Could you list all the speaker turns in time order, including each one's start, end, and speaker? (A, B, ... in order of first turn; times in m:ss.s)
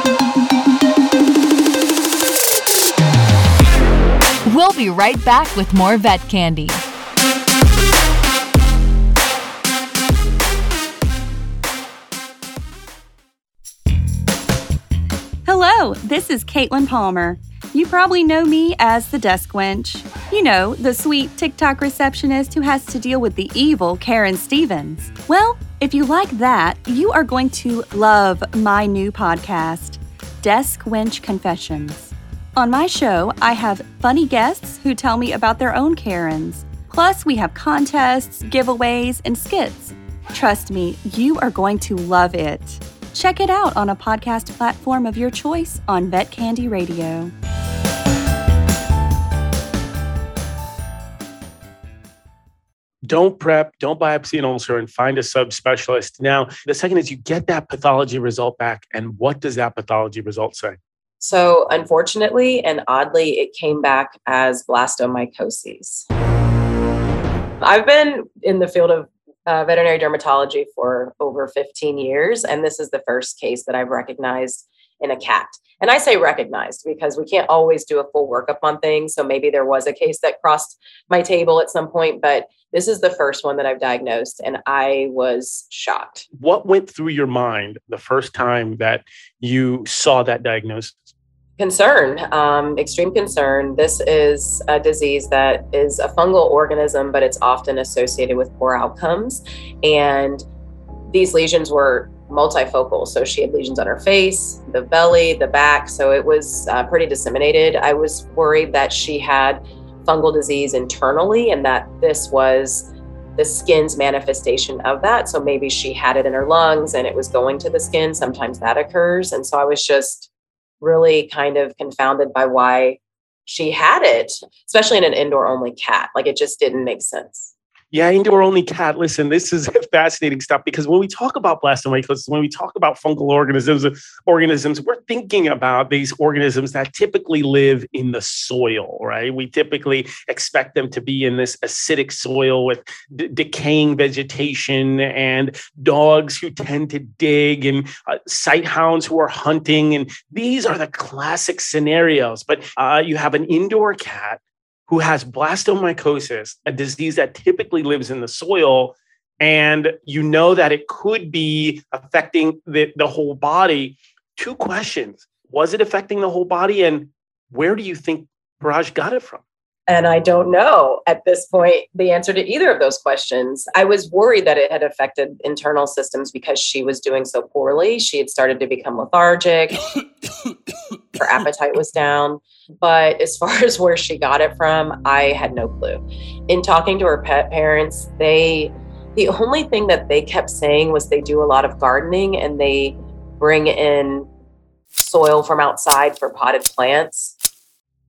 0:04.5-0:06.8 A
0:15.4-0:47.3 B
0:53.1-1:00.8 C
1:01.2-1:06.1 D
1:07.6-1:26.3 D
1:26.4-1:31.1 C
1:31.6-1:40.4 D
1:41.1-2:00.3 D
2:00.8-2:07.5 D
2:07.9-2:49.4 C
2:49.9-2:59.8 D
3:01.2-3:14.3 D
3:15.0-3:17.4 D